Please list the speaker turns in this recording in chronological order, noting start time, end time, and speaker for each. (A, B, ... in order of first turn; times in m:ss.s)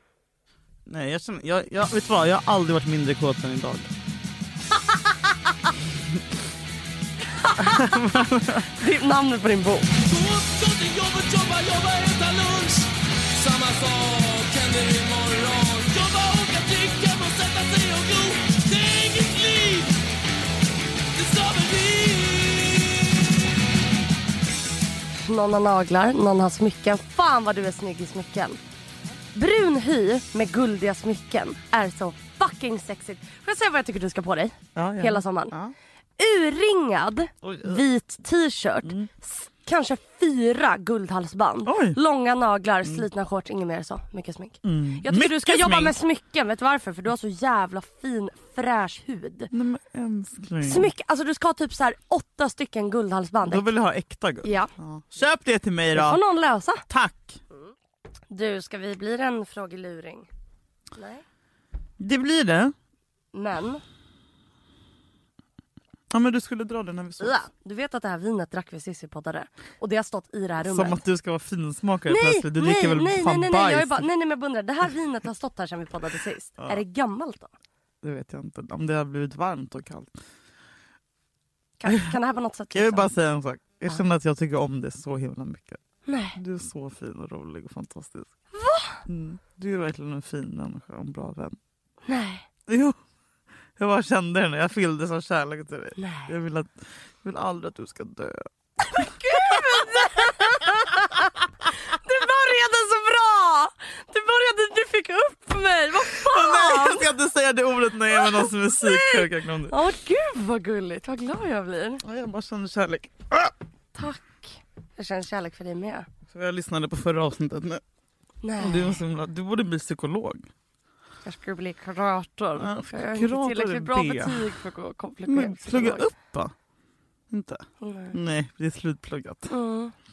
0:00.9-0:03.9 A
0:07.4-0:09.9 B
0:07.6-0:08.7 A
0:10.0-0:20.0 C
0:21.2-0:23.3 C
0:25.1-0:28.6 B
0:29.4-0:35.6 B
0:34.8-0:35.8 A
0:36.2-0:49.5 B
0:37.4-0:37.8 A
0:41.6-0:42.0 A
0:44.6-0:46.0 A
0:49.5-0:50.9 A
0:50.6-0:53.7 B
0:53.4-0:56.2 A
0:54.4-0:54.7 B
0:55.9-0:56.8 B
0:56.9-0:57.4 A
0:58.3-1:00.3 B
1:01.0-1:01.2 B
1:02.0-1:02.7 A
1:03.3-1:03.8 B
1:06.1-1:07.4 A
1:07.2-1:11.0 B
1:10.6-1:14.1 A
1:12.1-1:17.5 B
1:18.0-1:20.2 A
1:21.8-1:23.1 B
1:22.7-1:25.8 A
1:26.1-1:26.4 B
1:26.4-1:28.3 A
1:28.5-1:29.0 B
1:29.1-1:31.6 A
1:32.1-1:32.5 B
1:32.7-1:33.0 A
1:33.8-1:38.5 A
1:36.0-1:36.3 B
1:38.9-1:41.4 B
1:39.0-1:40.3 A
1:41.9-1:47.1 B
1:46.0-1:49.8 A
1:48.1-1:52.0 B
1:52.0-1:53.5 A
1:54.0-1:56.1 B
1:56.3-1:57.8 A
1:58.4-1:59.0 B
1:58.6-2:00.5 A
2:01.2-2:06.1 B
2:02.6-2:04.5 A
2:05.3-2:06.5 A
2:07.3-2:09.5 A
2:07.8-2:08.2 B
2:09.5-2:09.9 B